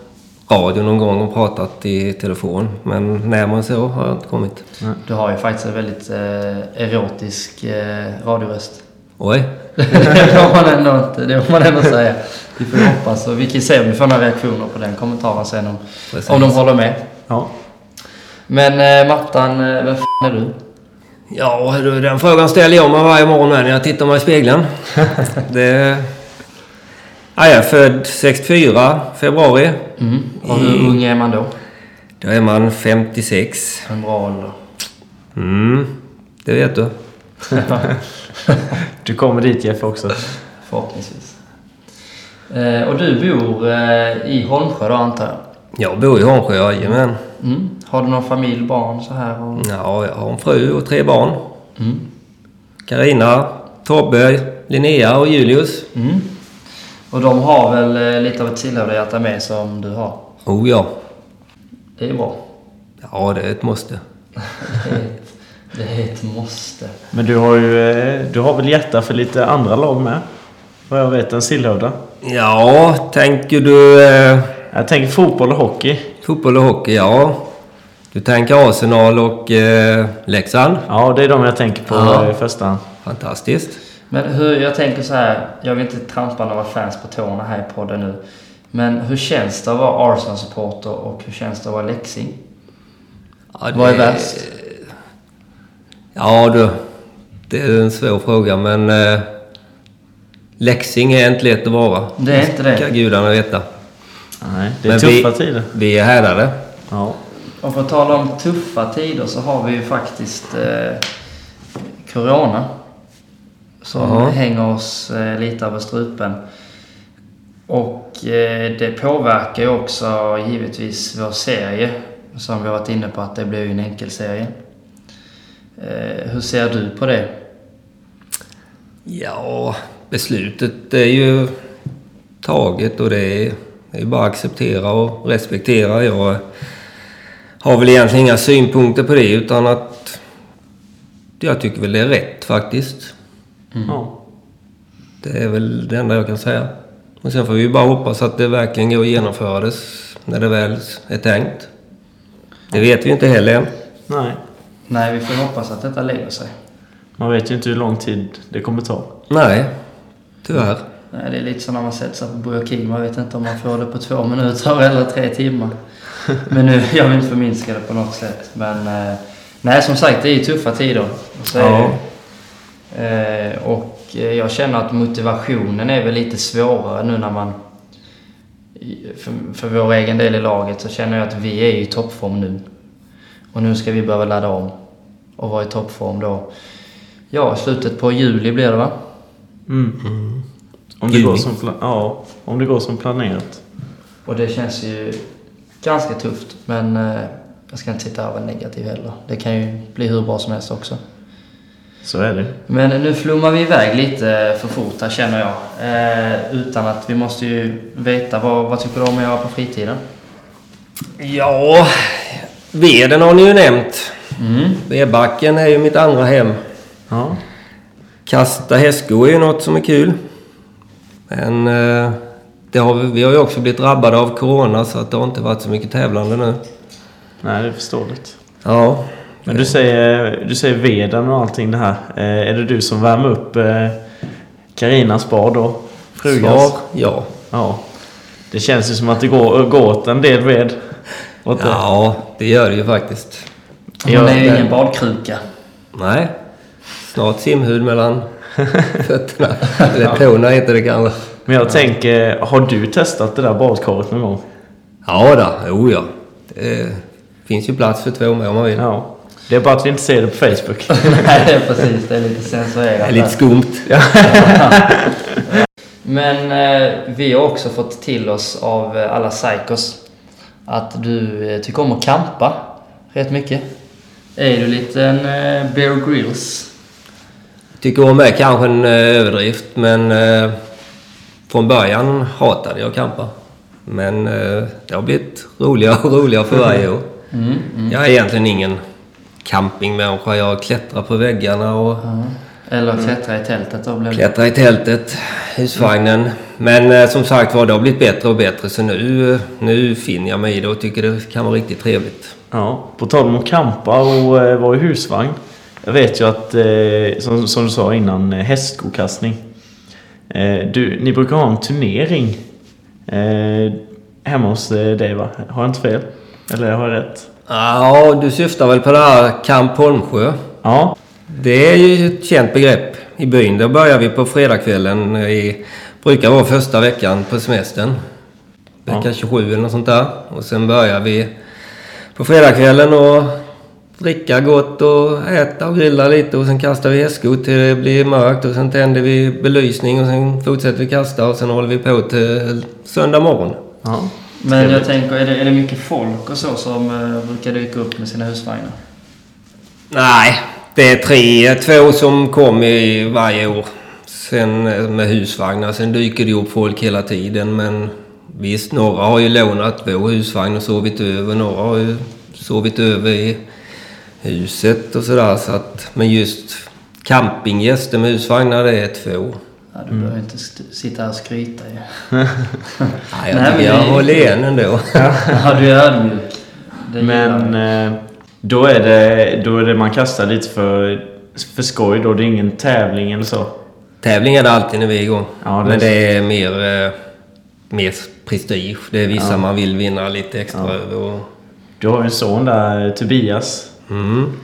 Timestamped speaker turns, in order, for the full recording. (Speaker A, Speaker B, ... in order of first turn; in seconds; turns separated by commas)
Speaker A: 0.5-4.6, Speaker B: 5.0-8.8, Speaker A: 9.2-10.2, Speaker B: 9.8-17.0, Speaker A: 16.1-16.5, Speaker B: 18.5-20.6, Speaker A: 21.3-26.1, Speaker A: 27.4-29.8, Speaker B: 30.0-31.5, Speaker A: 30.4-30.9, Speaker A: 32.2-33.9, Speaker B: 33.9-34.5, Speaker A: 35.3-35.9, Speaker A: 36.4-36.9, Speaker B: 37.5-37.9, Speaker C: 39.0-40.3, Speaker B: 40.6-41.4, Speaker B: 42.5-45.4, Speaker A: 45.8-47.2, Speaker B: 47.4-49.7, Speaker A: 49.6-51.4, Speaker B: 51.8-52.0, Speaker A: 52.9-55.9, Speaker B: 55.9-56.3, Speaker B: 57.1-60.2, Speaker A: 60.5-60.9, Speaker B: 62.0-62.4, Speaker A: 63.0-64.0, Speaker B: 64.6-67.0, Speaker C: 67.1-70.2, Speaker C: 70.9-72.0, Speaker A: 72.2-74.5, Speaker C: 74.7-76.1, Speaker A: 76.2-77.4, Speaker A: 78.1-80.8, Speaker C: 80.9-82.8, Speaker A: 81.9-82.3, Speaker A: 83.0-83.8, Speaker B: 84.1-88.2, Speaker B: 88.7-92.4, Speaker A: 93.6-94.6, Speaker B: 93.7-94.4, Speaker A: 96.1-96.8, Speaker A: 97.5-99.3, Speaker A: 100.6-103.6, Speaker B: 102.2-102.9, Speaker C: 104.4-105.7, Speaker A: 104.9-106.6, Speaker C: 106.9-107.2, Speaker B: 107.6-111.0, Speaker B: 112.0-112.7, Speaker B: 113.8-116.4, Speaker A: 114.0-114.3, Speaker B: 117.7-124.5, Speaker B: 125.8-127.3, Speaker A: 129.1-131.5, Speaker A: 132.4-136.4, Speaker A: 137.6-140.2, Speaker A: 141.4-143.1, Speaker C: 143.8-144.1, Speaker A: 145.2-146.7, Speaker A: 147.2-151.7, Speaker A: 152.7-153.7, Speaker C: 154.1-154.4, Speaker B: 154.9-156.5, Speaker C: 157.2-159.1, Speaker A: 159.3-159.7, Speaker A: 160.4-160.8, Speaker B: 161.1-165.8, Speaker B: 166.4-172.0, Speaker C: 171.5-172.0, Speaker B: 172.9-177.6, Speaker B: 178.8-182.6, Speaker B: 183.5-184.7, Speaker B: 185.4-186.5, Speaker B: 187.3-189.0, Speaker C: 189.7-190.0, Speaker A: 190.0-190.4, Speaker C: 191.0-193.6, Speaker A: 191.1-191.4, Speaker B: 194.2-195.2, Speaker B: 195.8-201.0, Speaker C: 202.0-202.5, Speaker B: 202.7-210.0, Speaker A: 211.2-214.2, Speaker B: 214.4-214.8, Speaker A: 214.8-216.6, Speaker C: 217.1-217.4, Speaker A: 218.2-220.2, Speaker A: 221.3-222.2, Speaker A: 222.7-226.6, Speaker C: 227.4-228.3, Speaker A: 228.6-229.7, Speaker C: 229.5-234.0, Speaker C: 234.8-236.8, Speaker A: 236.3-237.3, Speaker C: 237.5-237.8, Speaker C: 238.5-240.8, Speaker C: 241.4-241.8, Speaker A: 241.6-243.4, Speaker B: 244.0-245.4, Speaker C: 244.0-244.5, Speaker A: 245.9-246.3, Speaker A: 247.0-248.2, Speaker A: 248.9-251.2, Speaker C: 251.5-254.4, Speaker A: 255.0-258.8, Speaker C: 258.8-261.3, Speaker B: 260.9-263.4, Speaker A: 263.0-263.9, Speaker C: 263.9-265.3, Speaker B: 264.2-264.9, Speaker B: 265.4-270.0, Speaker B: 270.6-273.6, Speaker B: 274.4-276.7, Speaker A: 277.8-280.6, Speaker A: 281.5-283.3, Speaker A: 283.9-287.1, Speaker B: 287.3-288.0, Speaker A: 287.9-288.8, Speaker A: 289.4-292.0, Speaker B: 292.0-294.3, Speaker A: 294.1-302.4, Speaker C: 302.5-309.4, Speaker C: 310.3-312.4, Speaker C: 313.1-317.3, Speaker A: 317.5-320.4, Speaker C: 320.6-320.9, Speaker A: 321.3-328.0, Speaker A: 328.9-331.3, Speaker A: 332.1-333.4, Speaker A: 334.0-343.6, Speaker C: 343.8-344.1, Speaker B: 344.4-348.8, Speaker A: 349.9-363.4, Speaker A: 364.2-369.4, Speaker B: 369.7-372.1, Speaker B: 372.6-374.3, Speaker A: 373.1-375.1, Speaker C: 374.9-375.4, Speaker B: 375.2-377.6, Speaker C: 377.0-383.5, Speaker A: 384.0-386.9, Speaker C: 385.4-385.9, Speaker A: 387.7-391.2, Speaker C: 389.1-389.4, Speaker C: 391.8-393.7, Speaker A: 393.9-394.4